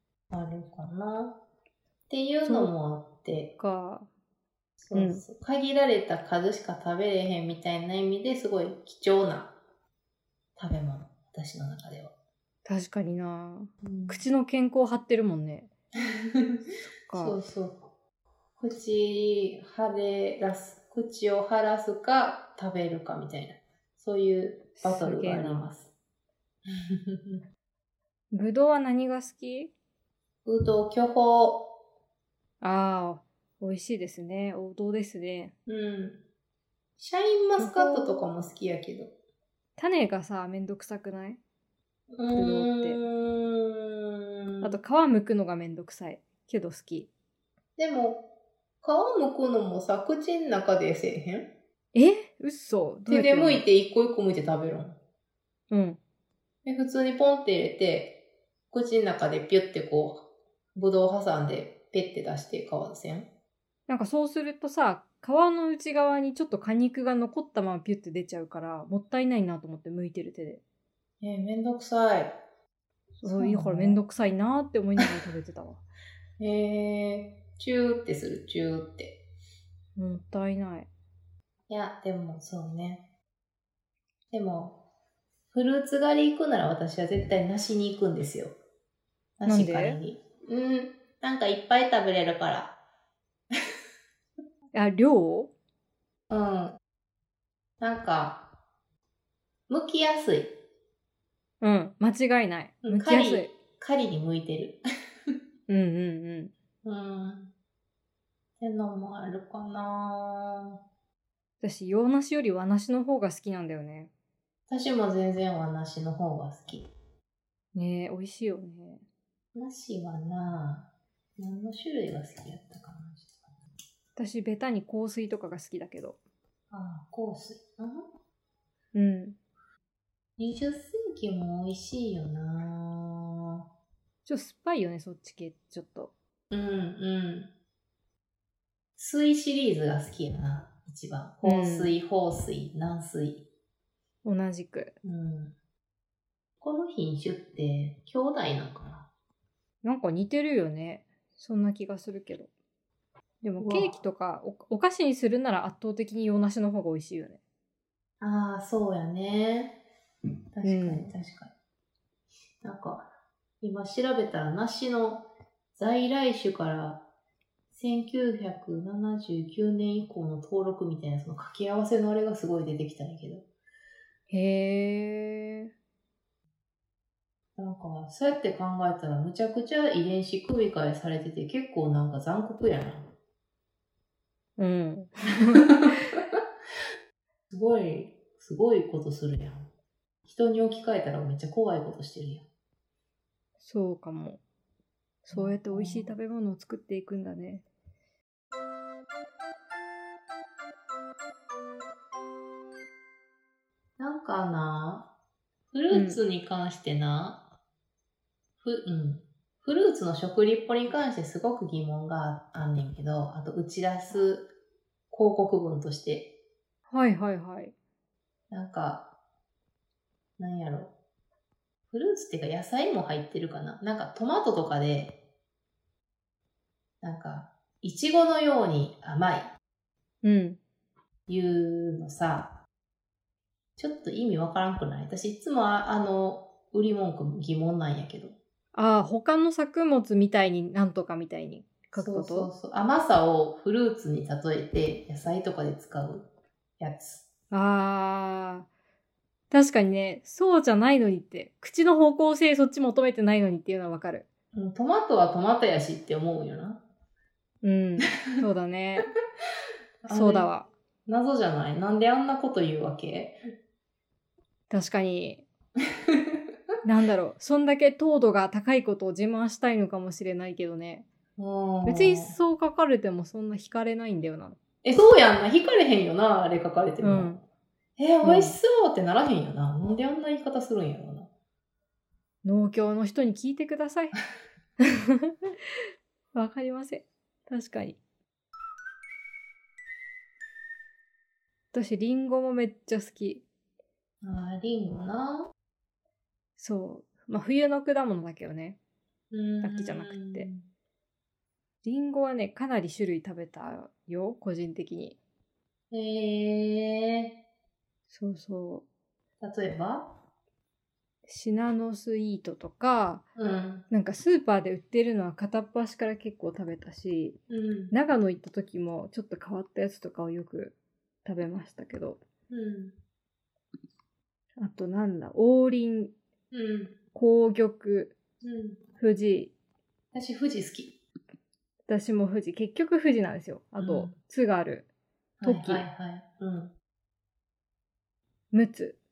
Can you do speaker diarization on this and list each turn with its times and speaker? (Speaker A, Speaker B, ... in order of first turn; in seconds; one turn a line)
Speaker A: 0.3-1.4
Speaker A: 2.1-3.5
Speaker B: 2.4-2.7
Speaker B: 3.6-4.1
Speaker A: 4.8-9.5
Speaker B: 4.9-5.2
Speaker A: 10.6-12.1
Speaker B: 12.6-15.7
Speaker A: 13.8-14.2
Speaker A: 16.1-16.6
Speaker B: 17.0-17.4
Speaker A: 17.1-17.8
Speaker A: 18.6-25.9
Speaker B: 24.8-25.7
Speaker A: 26.7-27.4
Speaker B: 28.3-29.7
Speaker A: 30.4-31.7
Speaker B: 32.6-35.5
Speaker A: 35.7-36.2
Speaker A: 37.0-39.1
Speaker B: 37.6-38.3
Speaker B: 39.8-41.4
Speaker A: 42.1-44.8
Speaker B: 42.3-43.0
Speaker B: 44.6-47.1
Speaker A: 47.8-48.2
Speaker A: 48.8-51.5
Speaker B: 51.9-53.6
Speaker A: 53.1-55.0
Speaker B: 55.7-56.0
Speaker A: 56.6-58.2
Speaker A: 58.7-63.3
Speaker B: 63.9-70.6
Speaker A: 71.2-72.3
Speaker B: 73.2-75.8
Speaker A: 73.2-74.0
Speaker A: 76.4-79.2
Speaker B: 80.0-80.9
Speaker A: 81.7-83.0
Speaker A: 84.3-84.8
Speaker A: 85.5-88.5
Speaker A: 89.4-92.8
Speaker B: 89.5-90.0
Speaker B: 94.7-95.5
Speaker A: 96.3-96.8
Speaker A: 97.8-98.4
Speaker A: 99.7-100.5
Speaker B: 101.6-103.5
Speaker A: 102.8-104.8
Speaker B: 105.7-106.5
Speaker A: 106.8-107.5
Speaker A: 108.6-110.8
Speaker B: 111.6-114.1
Speaker A: 114.7-116.9
Speaker B: 117.7-119.0
Speaker A: 119.5-123.5
Speaker B: 124.2-126.2
Speaker A: 126.7-128.0
Speaker B: 128.9-129.3
Speaker A: 130.4-133.6
Speaker B: 134.2-136.1
Speaker A: 136.5-137.5
Speaker A: 139.0-143.4
Speaker B: 141.4-141.9
Speaker B: 144.2-144.9
Speaker A: 145.0-145.5
Speaker A: 146.6-149.1
Speaker B: 149.8-152.5
Speaker B: 153.4-157.4
Speaker A: 153.6-154.0
Speaker A: 158.2-159.8
Speaker A: 160.5-161.5
Speaker B: 160.6-161.1
Speaker A: 162.6-163.1
Speaker A: 163.6-167.0
Speaker A: 167.7-173.5
Speaker B: 174.3-175.7
Speaker A: 177.6-183.1
Speaker B: 184.6-186.0
Speaker A: 187.5-189.7
Speaker A: 190.2-192.4
Speaker B: 193.6-194.4
Speaker B: 195.2-197.6
Speaker A: 195.3-196.2
Speaker A: 204.0-205.1
Speaker A: 205.7-207.4
Speaker B: 205.9-206.2
Speaker A: 208.6-214.5
Speaker A: 215.1-216.3
Speaker B: 216.9-217.7
Speaker A: 218.5-219.1
Speaker A: 220.4-220.9
Speaker A: 221.9-225.2
Speaker A: 227.0-229.5
Speaker B: 230.2-230.6
Speaker A: 231.3-232.6
Speaker A: 233.8-238.4
Speaker B: 238.7-242.5
Speaker A: 241.9-247.2
Speaker B: 247.5-248.7
Speaker B: 249.5-254.3
Speaker A: 254.5-256.8
Speaker B: 257.6-259.1
Speaker A: 260.0-260.5
Speaker B: 260.1-260.7
Speaker A: 261.0-263.4
Speaker B: 264.7-265.4
Speaker B: 266.8-271.1
Speaker A: 271.4-272.3
Speaker B: 271.8-274.6
Speaker A: 274.8-277.4
Speaker B: 277.0-277.4
Speaker A: 278.0-281.3
Speaker B: 278.2-278.6
Speaker B: 282.4-284.1
Speaker B: 285.2-285.5
Speaker B: 286.3-288.0
Speaker B: 291.7-293.4
Speaker A: 294.2-295.5
Speaker B: 296.6-298.8
Speaker A: 299.3-300.6
Speaker B: 299.6-300.5
Speaker B: 301.8-305.2
Speaker A: 305.9-307.3
Speaker B: 308.1-308.8
Speaker A: 309.4-310.1
Speaker B: 311.3-313.2
Speaker A: 313.4-313.8
Speaker B: 313.9-317.4
Speaker A: 317.5-317.9
Speaker B: 317.9-322.2
Speaker A: 322.5-322.9
Speaker B: 324.6-326.1
Speaker A: 326.5-326.9
Speaker B: 327.1-328.1
Speaker A: 328.4-328.8
Speaker B: 329.0-329.5
Speaker A: 330.1-330.9
Speaker B: 331.9-334.9
Speaker A: 333.8-334.1
Speaker A: 335.4-336.7
Speaker B: 335.4-335.8
Speaker B: 338.5-339.0